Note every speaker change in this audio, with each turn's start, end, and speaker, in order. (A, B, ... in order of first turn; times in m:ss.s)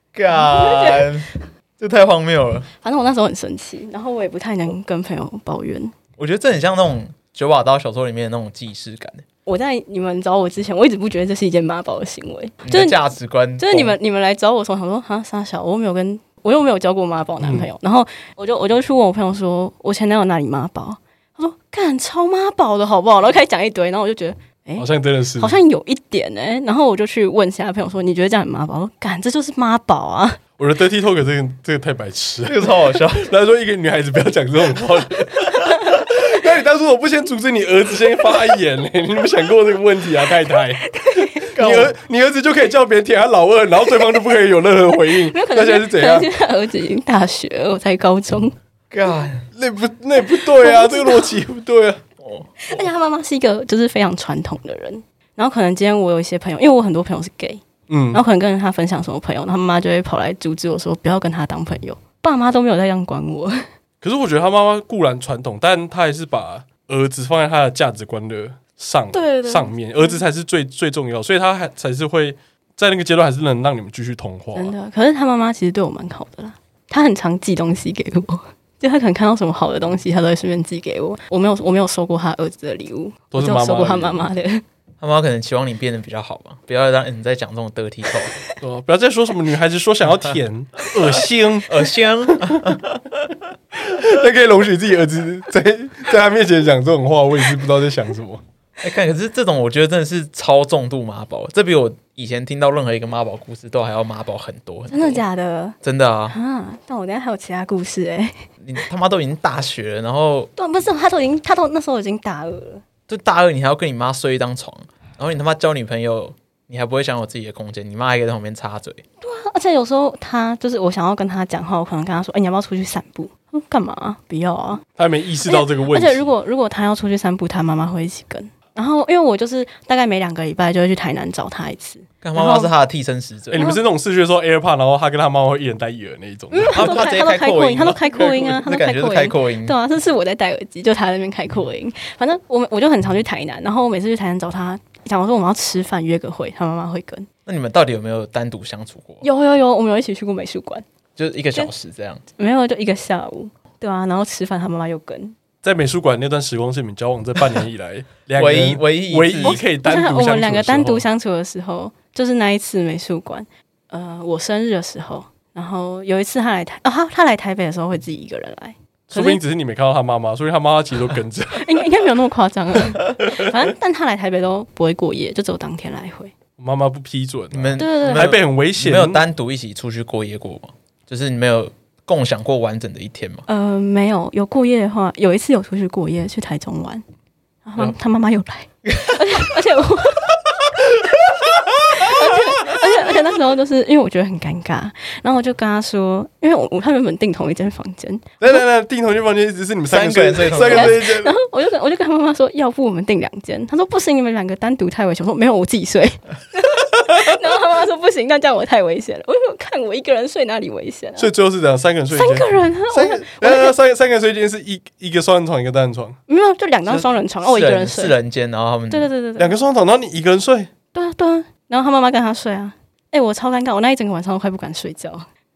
0:00.1-0:02.7 A
0:00.3-0:01.1 B
0:02.8-0:05.9 B
0:06.2-0:09.2 A
0:09.5-0:13.0 B
0:12.6-0:14.0 A
0:13.6-0:30.4 B
0:17.4-0:17.7 C
0:24.8-0:25.6 C
0:30.6-0:46.3 C
0:32.4-0:33.3 A
0:40.8-0:41.5 B
0:41.6-0:41.9 A
0:45.3-0:48.6 B
0:48.9-0:49.5 A
0:49.6-0:52.0 C
0:50.3-0:51.4 B
0:52.2-0:52.8 A
0:52.6-1:03.7 B
0:57.9-0:58.2 C
1:04.0-1:14.7 C
1:09.1-1:10.2 B
1:14.6-1:24.6 B
1:23.3-1:24.2 C
1:25.0-1:28.4 A
1:28.6-1:31.8 C
1:31.7-1:33.3 A
1:32.4-1:32.6 C
1:33.8-1:38.4 C
1:38.8-1:45.2 A
1:44.9-1:45.8 B
1:45.8-1:46.4 A
1:46.3-1:48.4 B
1:48.6-1:50.5 A
1:50.6-1:52.8 B
1:53.1-1:59.0 A
1:59.2-2:04.8 B
2:05.0-2:06.3 C
2:05.5-2:12.7 B
2:12.2-2:13.7 A
2:13.5-2:16.9 C
2:13.5-2:13.8 B
2:16.5-2:27.3 B
2:16.7-2:19.8 A
2:27.5-2:29.2 A
2:29.2-2:30.8 B
2:31.2-2:32.2 A
2:32.4-2:35.4 B
2:35.6-2:41.0 C
2:38.4-2:39.6 A
2:39.4-2:49.4 B
2:49.1-2:51.8 C
2:51.6-2:56.3 B
2:56.6-2:59.2 C
2:57.5-3:03.4 A
2:57.8-2:58.3 B
3:03.5-3:07.0 B
3:07.6-3:10.3 B
3:08.8-3:09.2 A
3:11.9-3:18.6 B
3:18.4-3:21.3 C
3:19.9-3:21.2 A
3:20.6-3:31.3 B
3:31.2-3:36.2 C
3:32.1-3:33.8 B
3:36.3-3:38.2 B
3:36.9-3:39.1 A
3:38.9-3:39.6 B
3:39.4-3:40.7 C
3:40.9-3:45.3 B